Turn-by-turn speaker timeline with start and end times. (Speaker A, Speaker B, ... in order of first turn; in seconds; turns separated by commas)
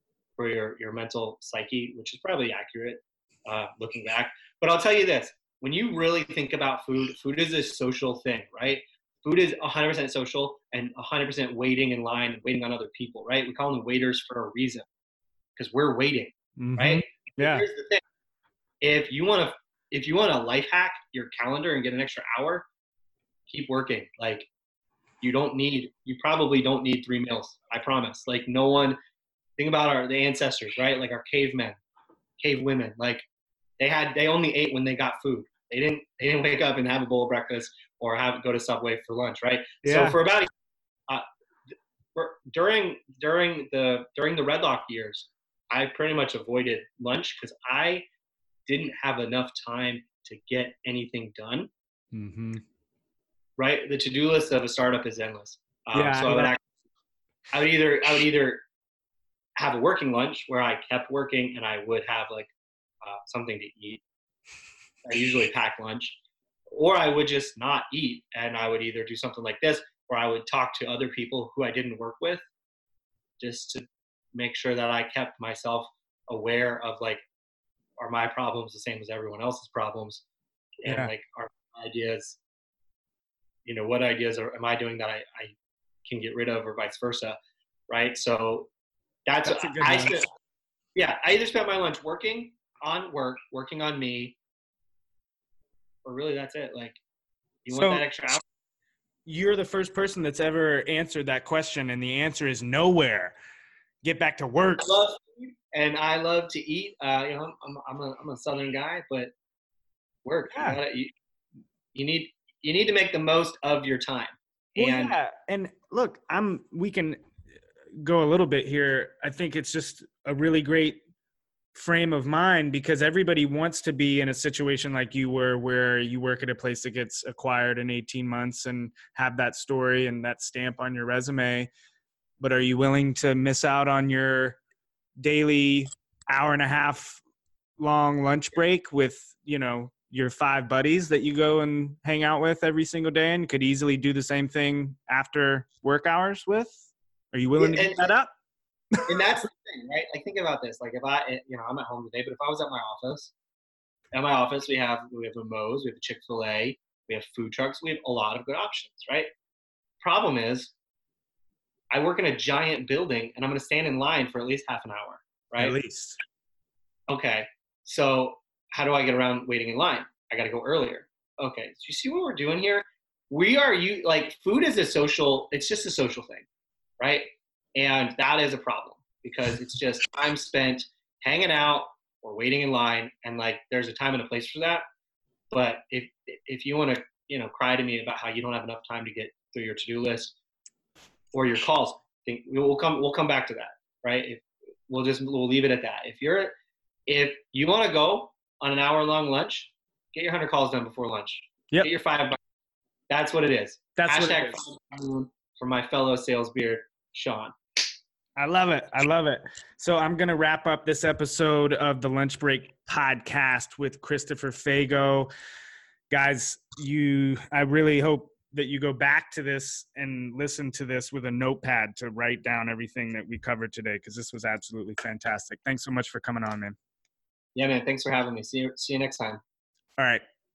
Speaker A: 0.4-14.9, Speaker A: 15.6-18.0, Speaker B: 16.6-17.6, Speaker A: 18.8-22.7, Speaker A: 23.5-24.5, Speaker A: 25.2-29.0, Speaker A: 29.6-31.8, Speaker A: 32.4-33.2, Speaker A: 33.8-40.5, Speaker B: 39.8-40.2, Speaker A: 42.1-48.0, Speaker A: 48.7-51.7, Speaker B: 52.1-52.6, Speaker A: 53.6-56.6, Speaker B: 55.9-56.6, Speaker A: 57.5-58.6, Speaker A: 59.6-62.5, Speaker A: 63.0-64.0, Speaker A: 65.0-66.2, Speaker A: 66.7-72.5, Speaker A: 73.4-77.2, Speaker A: 78.0-80.2, Speaker A: 80.8-82.4, Speaker B: 80.8-81.1, Speaker A: 83.6-85.5, Speaker A: 86.0-87.4, Speaker A: 87.9-88.7, Speaker A: 89.3-90.3, Speaker B: 89.5-90.2, Speaker A: 91.0-94.4, Speaker A: 96.0-97.0, Speaker A: 97.7-98.4, Speaker B: 97.7-98.0, Speaker B: 99.3-103.3, Speaker B: 104.0-104.9, Speaker A: 104.8-109.3, Speaker A: 110.2-111.1, Speaker B: 110.5-110.8, Speaker A: 112.0-115.2, Speaker B: 114.8-117.2, Speaker B: 118.0-121.0, Speaker B: 121.8-131.7, Speaker B: 132.4-134.6, Speaker B: 135.2-137.2, Speaker B: 137.8-146.8, Speaker B: 147.3-148.3, Speaker A: 147.6-148.1, Speaker B: 148.9-149.2, Speaker A: 149.1-153.3, Speaker A: 154.1-159.3, Speaker A: 160.0-160.7, Speaker A: 161.9-165.8, Speaker B: 165.6-166.2, Speaker A: 167.1-176.4, Speaker A: 177.0-184.8, Speaker A: 185.5-190.3, Speaker A: 191.3-196.5, Speaker A: 197.1-202.4, Speaker A: 203.1-207.6, Speaker B: 204.0-204.6, Speaker B: 208.4-215.3, Speaker B: 216.1-226.8, Speaker A: 227.6-229.4, Speaker B: 230.0-230.2